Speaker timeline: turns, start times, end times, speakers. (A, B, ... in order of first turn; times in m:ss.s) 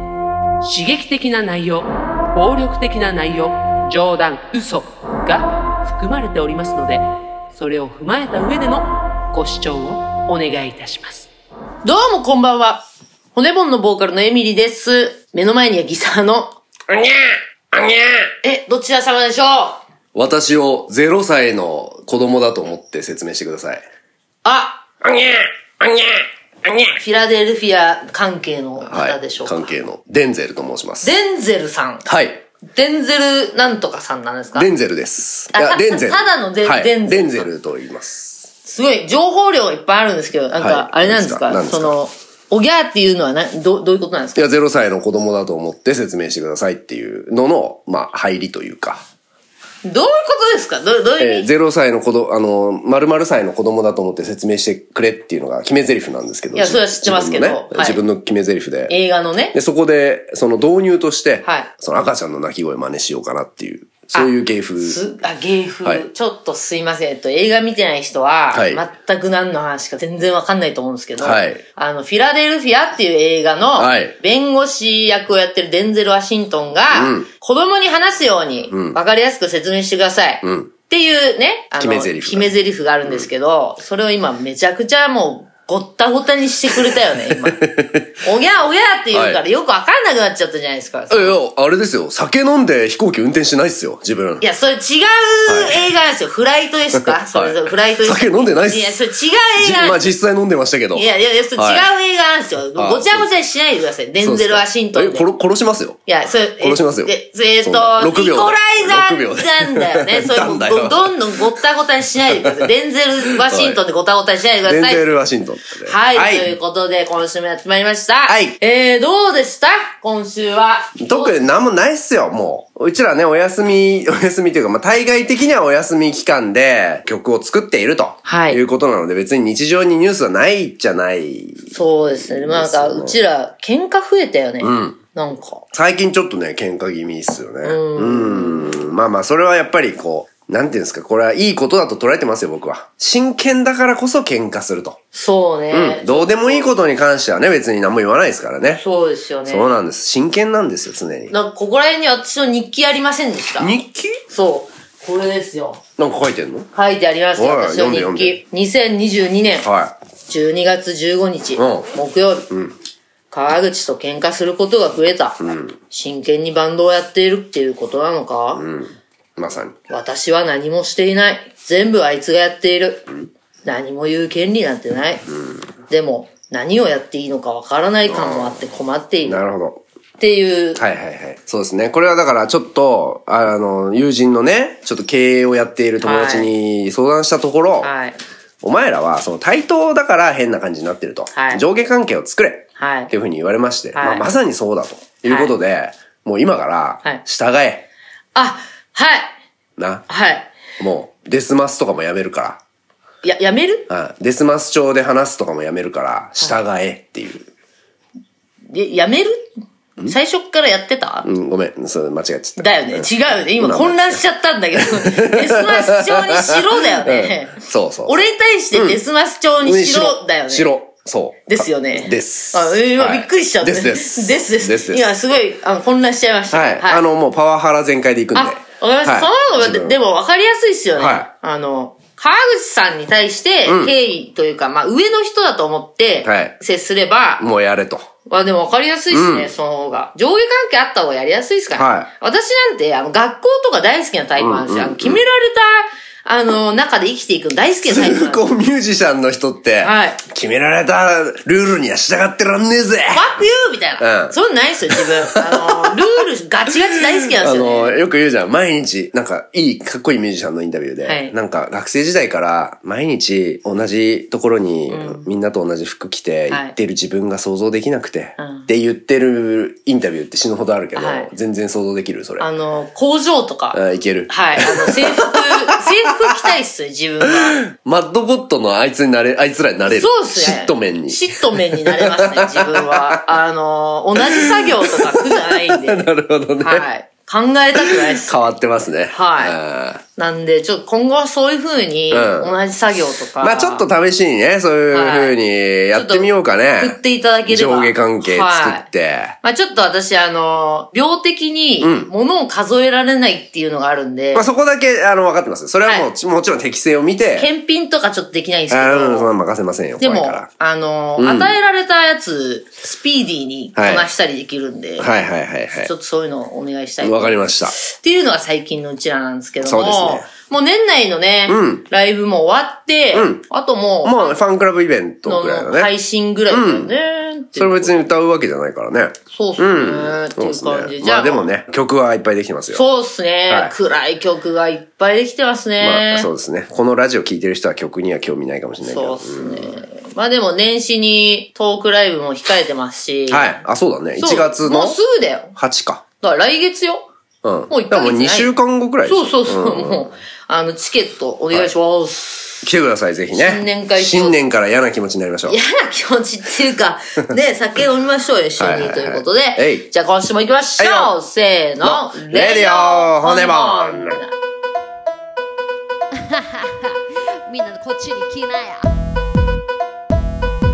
0:00.6-0:11.3 A
0:11.8-0:16.6 B
0:16.9-0:18.3 C
0:18.4-0:19.8 B
0:20.1-0:23.8 C
0:24.4-0:24.8 B
0:25.0-0:27.0 C
0:27.0-0:29.7 B
0:28.8-0:31.1 C
0:31.0-0:32.0 B
0:32.0-0:32.4 C
0:32.6-0:34.7 B
0:34.6-0:38.5 C
0:35.5-0:37.5 B
0:38.6-0:44.5 B
0:40.6-0:41.9 C
0:44.3-0:49.0 C
0:49.8-0:51.5 B
0:51.2-0:58.9 C
0:56.5-0:58.0 B
0:58.9-0:59.6 B
0:59.5-1:05.0 C
1:01.4-1:01.7 B
1:04.1-1:27.6 B
1:08.5-1:08.8 C
1:11.2-1:11.6 C
1:13.8-1:14.1 C
1:16.9-1:17.3 C
1:18.7-1:19.0 C
1:20.4-1:20.7 C
1:21.8-1:22.5 C
1:26.8-1:28.1 C
1:28.2-1:31.4 B
1:29.1-1:29.4 C
1:31.1-1:34.4 C
1:34.4-1:40.0 B
1:35.5-1:35.9 C
1:36.9-1:39.0 C
1:39.6-1:41.9 C
1:40.9-1:45.3 B
1:42.8-1:43.3 C
1:44.2-1:46.0 C
1:46.0-1:55.0 B
1:46.6-1:51.4 C
1:53.4-1:53.8 C
1:54.6-1:56.5 C
1:55.8-2:01.5 B
1:58.3-1:58.6 C
2:01.0-2:13.2 C
2:08.2-2:08.6 B
2:11.7-2:15.6 B
2:14.6-2:15.0 C
2:15.7-2:25.0 C
2:17.6-2:18.8 B
2:25.1-2:26.7 B
2:25.7-2:28.8 C
2:28.7-2:29.7 B
2:29.5-2:31.3 C
2:31.3-2:33.7 B
2:33.6-2:34.2 C
2:34.3-2:35.8 B
2:36.0-2:36.7 C
2:36.7-2:39.7 B
2:37.4-2:38.4 C
2:39.6-2:39.9 C
2:40.3-2:42.5 B
2:41.6-2:41.9 C
2:42.5-2:42.7 C
2:43.3-2:48.6 B
2:45.4-2:45.7 C
2:48.5-2:49.8 C
2:49.9-2:53.1 B
2:53.6-2:55.3 B
2:55.3-2:55.6 C
2:55.9-2:59.4 B
2:58.1-2:58.6 C
2:59.2-2:59.8 C
3:00.2-3:00.8 B
3:00.8-3:07.9 C
3:06.0-3:06.5 B
3:07.8-3:08.2 B
3:08.6-3:17.8 C
3:11.3-3:11.6 B
3:12.8-3:13.1 B
3:13.9-3:14.2 B
3:15.2-3:15.5 B
3:18.3-3:19.4 B
3:19.8-3:20.0 C
3:20.1-3:20.5 B
3:20.8-3:22.6 C
3:23.2-3:23.9 B
3:23.9-3:27.5 C
3:28.7-3:29.5 B
3:30.0-3:31.3 B
3:31.2-3:33.1 C
3:32.6-3:40.7 B
3:33.6-3:34.2 C
3:34.8-3:39.0 C
3:39.6-3:45.0 C
3:41.5-3:47.0 B
3:46.5-3:50.0 C
3:48.3-3:57.4 B
3:51.0-3:51.3 C
3:53.6-3:53.9 C
3:56.2-3:56.5 C
3:57.4-3:58.1 C
3:58.2-4:08.5 B
3:59.1-3:59.5 C
4:01.7-4:02.1 C
4:04.4-4:05.2 C
4:07.8-4:13.4 C
4:09.8-4:10.2 B
4:13.1-4:18.0 B
4:14.0-4:14.3 C
4:14.9-4:15.9 C
4:17.1-4:32.5 C
4:21.0-4:21.3 B
4:24.9-4:25.2 B
4:26.5-4:26.7 B
4:28.4-4:28.7 B
4:30.9-4:31.3 B
4:32.4-4:37.6 B
4:33.7-4:35.5 C
4:37.6-4:43.2 C
4:39.9-4:48.5 B
4:44.2-4:46.8 C
4:47.8-4:50.0 C
4:49.1-4:49.6 B
4:50.2-4:53.8 B
4:52.1-4:52.5 C
4:53.4-4:59.4 C
4:54.9-4:55.3 B
4:55.9-4:58.8 B
4:59.4-5:04.5 B
5:01.8-5:02.1 C
5:04.3-5:07.5 C
5:07.4-5:09.3 B
5:08.7-5:10.5 C
5:10.0-5:15.1 B
5:11.2-5:11.5 C
5:13.8-5:14.0 C
5:15.0-5:15.9 C
5:15.8-5:24.4 B
5:17.0-5:17.7 C
5:19.6-5:20.3 C
5:21.5-5:21.8 C
5:23.1-5:23.4 C
5:24.0-5:25.9 C
5:25.2-5:28.0 B
5:26.5-5:26.9 C
5:27.6-5:32.8 C
5:29.3-5:31.5 B
5:32.7-5:36.3 B
5:33.5-5:33.7 C
5:35.8-5:39.8 C
5:38.8-5:43.6 B
5:43.3-5:45.0 C
5:44.2-5:45.5 B
5:45.6-5:46.0 C
5:46.2-5:47.1 B
5:47.4-5:50.1 C
5:47.7-5:48.5 B
5:49.0-5:52.6 B
5:52.6-5:55.6 C
5:53.3-5:54.4 B
5:55.5-6:04.3 B
5:58.6-5:59.8 C
6:00.8-6:01.1 C
6:01.8-6:04.2 C
6:06.1-6:08.9 D